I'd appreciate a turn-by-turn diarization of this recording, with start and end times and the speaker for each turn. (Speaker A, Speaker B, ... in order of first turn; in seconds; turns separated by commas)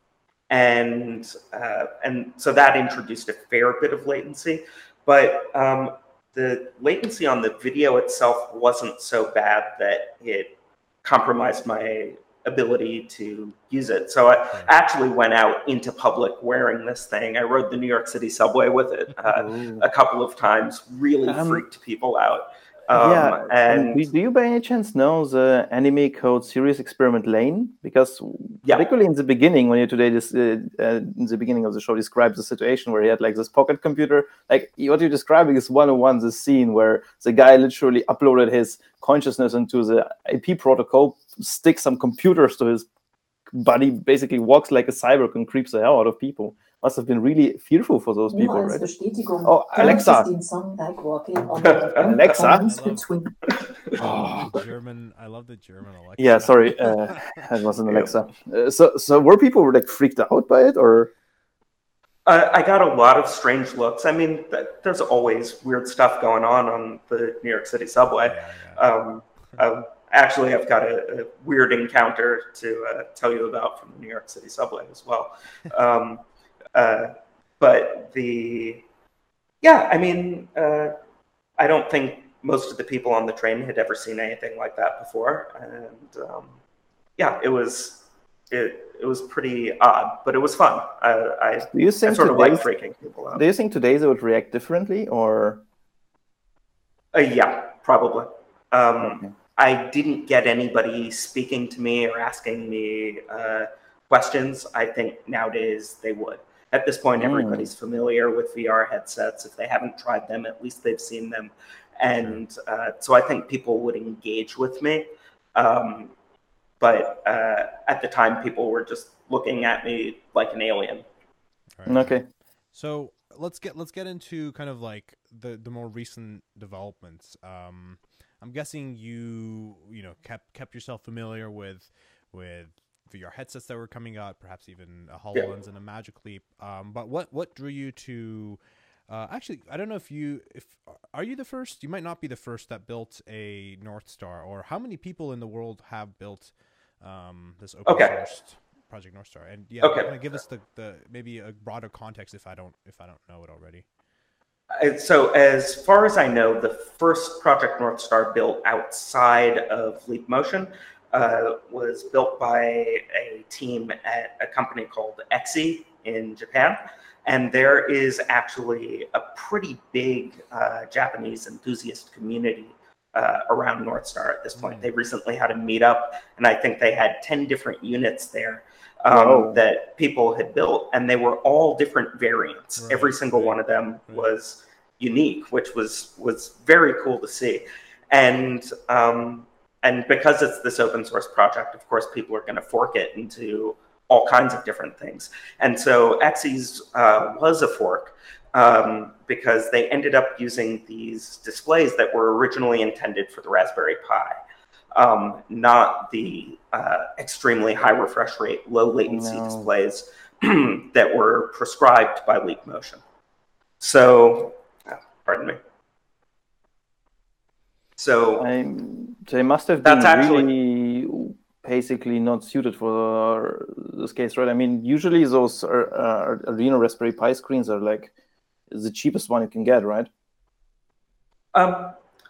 Speaker A: 0.5-24.1, Speaker B: 19.3-19.9, Speaker B: 21.3-21.6, Speaker B: 22.9-42.9, Speaker B: 43.5-48.9, Speaker C: 48.3-53.4, Speaker B: 49.4-50.3, Speaker D: 51.6-51.8, Speaker A: 51.6-52.4, Speaker B: 51.8-52.8, Speaker D: 52.5-53.1, Speaker A: 53.5-54.0, Speaker B: 54.0-54.6, Speaker D: 54.0-57.6, Speaker B: 56.2-61.1, Speaker A: 62.3-76.2, Speaker D: 68.2-68.8, Speaker A: 76.8-78.8, Speaker A: 79.6-81.0, Speaker A: 81.6-86.6, Speaker A: 87.2-93.4, Speaker B: 91.7-92.7, Speaker B: 93.3-95.6, Speaker A: 97.1-116.1, Speaker B: 99.0-99.3, Speaker B: 107.2-107.7, Speaker A: 116.8-121.0, Speaker D: 121.8-122.2, Speaker B: 121.9-122.2, Speaker D: 122.7-153.9, Speaker A: 147.9-148.2, Speaker A: 149.8-150.4, Speaker A: 154.8-204.4, Speaker D: 174.6-174.9, Speaker B: 179.1-179.6, Speaker D: 182.8-184.3, Speaker A: 204.9-213.0, Speaker B: 209.1-209.7, Speaker A: 213.8-215.6, Speaker A: 218.0-218.5, Speaker B: 218.4-228.1, Speaker A: 219.8-220.5, Speaker B: 228.7-230.1, Speaker A: 231.5-232.0